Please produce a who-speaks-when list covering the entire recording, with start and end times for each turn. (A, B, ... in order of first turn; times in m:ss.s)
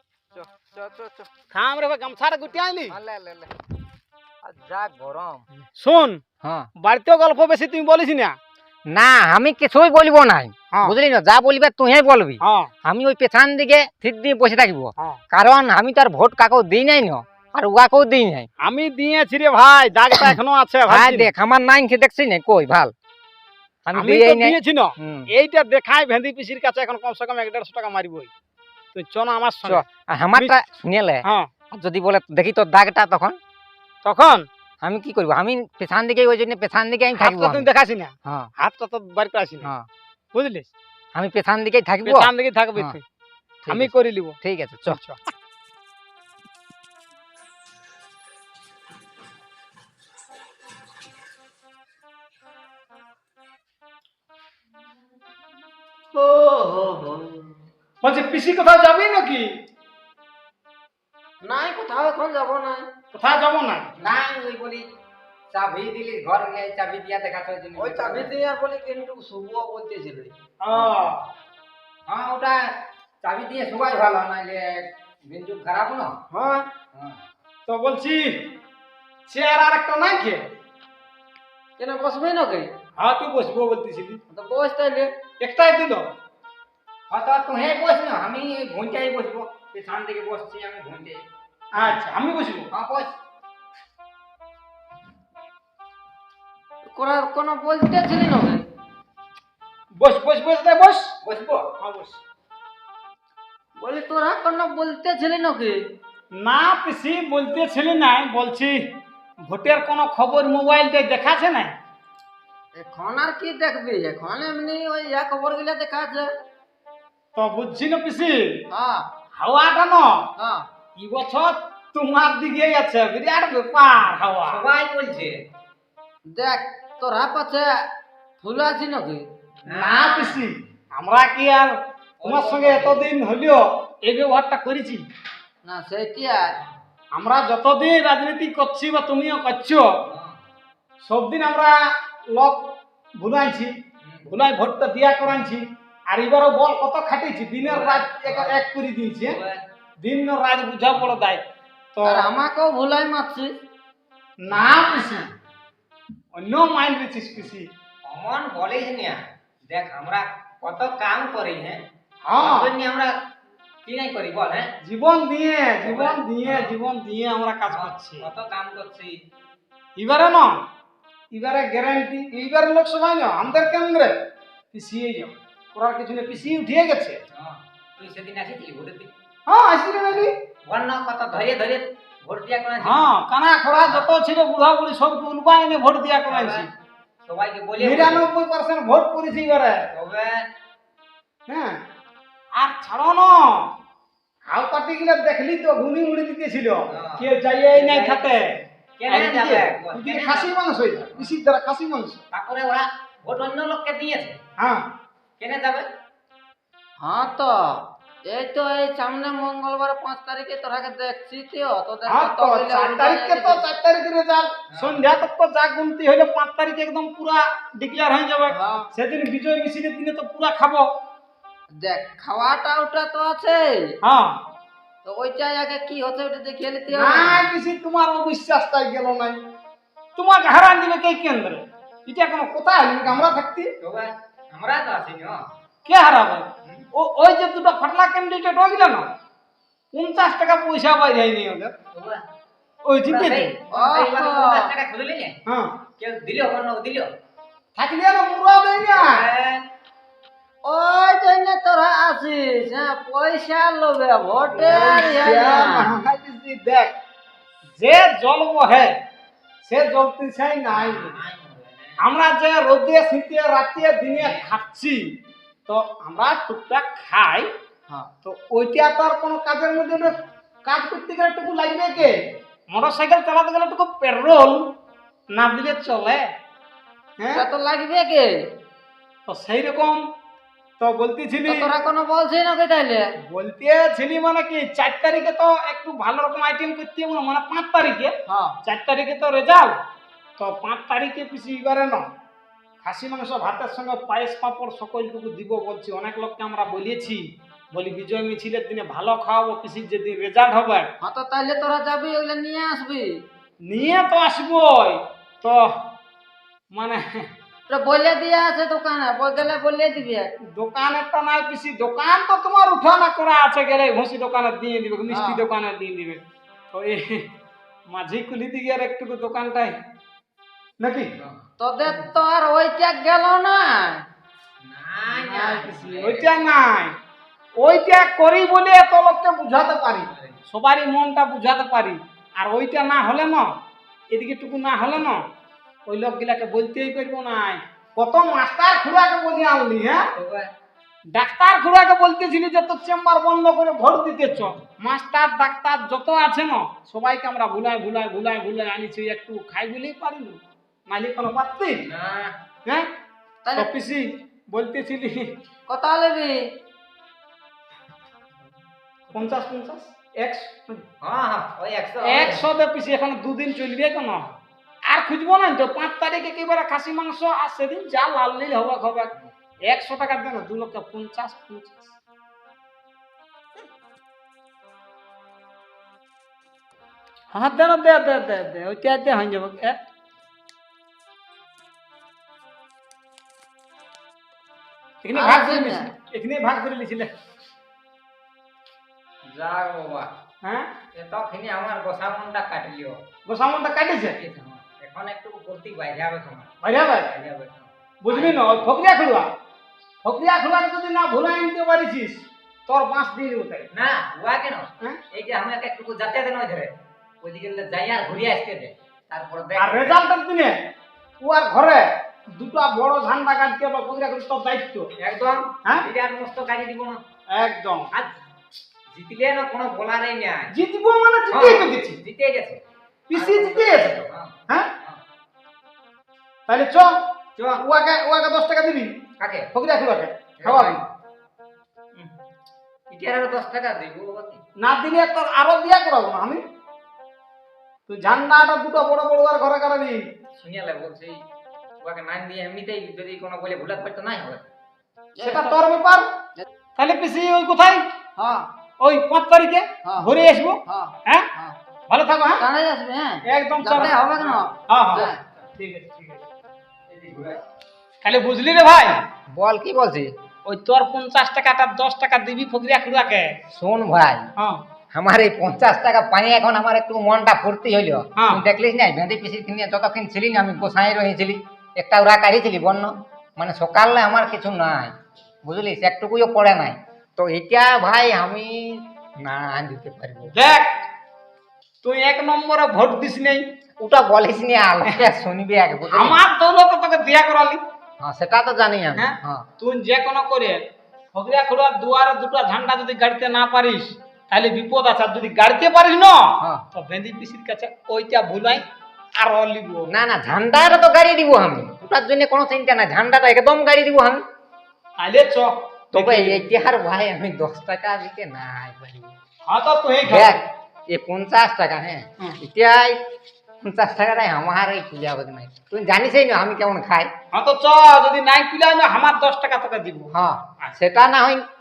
0:00.3-0:01.3 A
0:01.5-0:03.0 B
0:02.9-0:03.5 A
0:04.4-0:05.4 A
0:05.8-0:06.2 B
0:06.4-0:06.7 A
0:06.8-0:08.4 B
0:08.9-0:18.5 A
0:12.4-0:12.7 B
0:18.6-0:21.3 B
0:20.9-0:22.9 A
0:23.9-0:25.3 A
0:24.0-0:28.3 B
0:28.9-0:29.8 B
0:29.6-0:33.4 A
0:31.2-0:31.5 B
0:34.0-0:34.5 B
0:34.8-0:37.7 A
0:37.2-0:39.7 B
0:38.2-0:38.5 A
0:39.6-0:39.9 A
0:40.3-0:40.7 B
0:41.1-0:43.0 A
0:42.0-0:43.0 B
0:43.6-0:43.9 A
0:43.7-0:45.2 B
0:44.4-0:45.0 A
0:56.1-0:57.5 C
0:58.0-0:59.6 B
1:01.4-1:02.9 C
1:03.1-1:03.9 B
1:04.0-1:04.9 A
1:05.5-1:08.3 A
1:07.8-1:10.3 C
1:10.6-1:11.2 B
1:10.7-1:11.1 A
1:12.1-1:16.2 A
1:16.3-1:16.7 B
1:16.9-1:17.2 A
1:17.7-1:18.5 B
1:19.3-1:20.5 B
1:21.8-1:22.7 C
1:23.0-1:24.2 B
1:24.3-1:25.1 C
1:25.4-1:26.1 B
1:27.1-1:31.2 A
1:31.7-1:32.7 B
1:32.7-1:33.1 A
1:36.9-1:38.7 C
1:40.0-1:41.2 B
1:41.2-1:41.7 A
1:41.8-1:42.2 B
1:43.8-1:45.8 C
1:46.3-1:48.8 B
1:49.4-1:51.8 B
1:52.8-1:56.3 C
1:57.3-1:58.6 B
1:58.7-1:59.0 C
1:59.3-2:00.3 B
2:00.4-2:00.7 C
2:01.0-2:04.6 B
2:04.4-2:05.5 A
2:06.3-2:07.8 C
2:08.4-2:09.2 C
2:09.6-2:10.4 A
2:09.7-2:15.1 B
2:12.2-2:13.1 A
2:15.6-2:16.6 C
2:16.4-2:16.8 A
2:17.1-2:20.0 B
2:20.0-2:20.4 A
2:21.0-2:23.7 B
2:24.0-2:24.4 A
2:24.3-2:29.4 B
2:27.6-2:28.6 A
2:29.2-2:29.6 A
2:30.0-2:32.3 B
2:32.0-2:33.5 C
2:34.4-2:35.3 B
2:34.5-2:35.3 A
2:36.3-2:37.7 B
2:38.0-2:41.8 A
2:42.2-2:42.7 B
2:42.4-2:43.1 A
2:43.8-2:44.7 A
2:44.8-2:48.3 B
2:45.9-2:46.8 A
2:47.7-2:49.2 A
2:50.0-2:50.7 B
2:51.3-2:54.2 B
2:54.7-2:57.2 B
2:57.3-2:59.1 A
2:59.5-3:00.3 B
3:00.1-3:03.1 A
3:02.8-3:06.7 B
3:03.8-3:04.1 A
3:06.3-3:06.7 A
3:07.2-3:08.3 A
3:07.8-3:09.9 B
3:09.9-3:10.4 A
3:11.5-3:11.8 B
3:12.5-3:13.7 B
3:14.5-3:22.2 B
3:16.9-3:18.3 A
3:19.0-3:21.3 A
3:22.3-3:24.4 A
3:24.6-3:24.9 B
3:25.4-3:25.9 A
3:27.0-3:33.7 C
3:32.1-3:40.9 B
3:34.7-3:35.0 A
3:38.5-3:38.9 C
3:41.7-3:44.0 C
3:44.0-3:44.4 B
3:45.0-3:47.4 C
3:46.9-3:49.4 B
3:50.2-3:53.8 B
3:53.1-3:55.4 A
3:55.8-3:59.1 B
3:59.9-4:01.7 B
4:01.9-4:02.2 A
4:02.8-4:03.6 B
4:03.0-4:05.4 A
4:03.7-4:04.7 C
4:05.5-4:05.8 B
4:06.0-4:07.1 A
4:07.8-4:09.3 B
4:08.9-4:09.6 A
4:10.6-4:15.9 C
4:14.5-4:15.1 A
4:14.6-4:17.0 B
4:17.7-4:19.0 B
4:19.6-4:21.2 B
4:20.7-4:22.0 A
4:22.0-4:27.5 B
4:24.2-4:24.5 A
4:28.2-4:34.7 B
4:35.3-4:36.3 B
4:37.2-4:37.5 B
4:37.3-4:38.4 C
4:39.3-4:40.0 B
4:40.8-4:41.7 B
4:41.4-4:43.1 C
4:43.2-4:49.8 B
4:48.3-4:48.6 C
4:50.4-4:52.1 B
4:52.8-5:00.9 B
5:01.0-5:03.1 C
5:03.7-5:05.7 B
5:06.7-5:07.3 B
5:07.7-5:10.3 C
5:10.5-5:17.3 B
5:15.1-5:15.5 C
5:17.9-5:19.8 B
5:20.8-5:21.2 B
5:21.2-5:21.5 A
5:21.6-5:24.0 C
5:24.6-5:26.5 A
5:25.2-5:25.8 C
5:25.9-5:27.0 B
5:27.6-5:33.6 B
5:30.0-5:30.4 A
5:34.1-5:35.3 B
5:35.9-5:40.1 B
5:40.1-5:40.5 A
5:41.1-5:51.9 B
5:51.8-5:52.4 A
5:52.6-5:52.9 B
5:53.4-5:53.7 C
5:53.5-5:55.4 B
5:55.7-5:56.5 C
5:59.1-5:59.4 A
5:59.1-6:00.8 B
6:01.0-6:02.5 A
6:02.0-6:11.9 B
6:17.3-6:19.8 B
6:25.0-6:27.1 B
6:25.1-6:25.9 C
6:29.3-6:30.1 A
6:30.4-6:30.7 B
6:30.9-6:33.0 A
6:33.2-6:34.2 B
6:34.0-6:38.7 A
6:36.6-6:37.1 B
6:38.0-6:39.3 B
6:40.0-6:43.7 B
6:43.7-6:50.0 A
6:49.6-6:50.6 B
6:51.2-6:54.9 B
6:55.0-6:57.0 A
6:57.3-6:57.9 B
6:57.9-6:58.2 A
6:58.9-7:00.5 A
7:00.5-7:02.0 B
7:01.3-7:02.6 A
7:03.1-7:04.7 B
7:03.1-7:05.0 A
7:06.5-7:07.0 B
7:07.4-7:07.6 A
7:07.6-7:09.0 B
7:09.2-7:09.5 A
7:09.5-7:10.8 B
7:10.4-7:10.9 A
7:12.9-7:14.4 A
7:14.6-7:16.4 B
7:17.9-7:20.1 B
7:20.4-7:21.2 A
7:21.8-7:24.4 A
7:25.2-7:25.6 C
7:25.2-7:26.0 B
7:26.8-7:27.9 B
7:28.2-7:28.5 C
7:28.8-7:31.3 B
7:29.8-7:30.1 C
7:30.7-7:31.6 C
7:31.9-7:32.4 B
7:32.4-7:35.2 C
7:33.2-7:34.0 B
7:34.7-7:36.2 B
7:36.9-7:37.4 A
7:38.0-7:39.1 B
7:39.3-7:40.1 A
7:40.4-7:43.4 B
7:43.5-7:44.3 A
7:44.9-8:00.4 A
7:48.2-7:48.4 B
8:00.3-8:00.9 B
8:01.8-8:03.5 B
8:03.8-8:06.2 A
8:05.9-8:07.6 B
8:08.0-8:09.5 A
8:09.0-8:18.6 B
8:16.4-8:16.6 A
8:19.2-8:19.9 B
8:19.9-8:24.2 A
8:25.0-8:26.4 B
8:25.9-8:29.1 A
8:29.5-8:30.4 B
8:30.0-8:33.0 A
8:33.6-8:37.1 A
8:37.3-8:40.1 B
8:40.1-8:41.4 A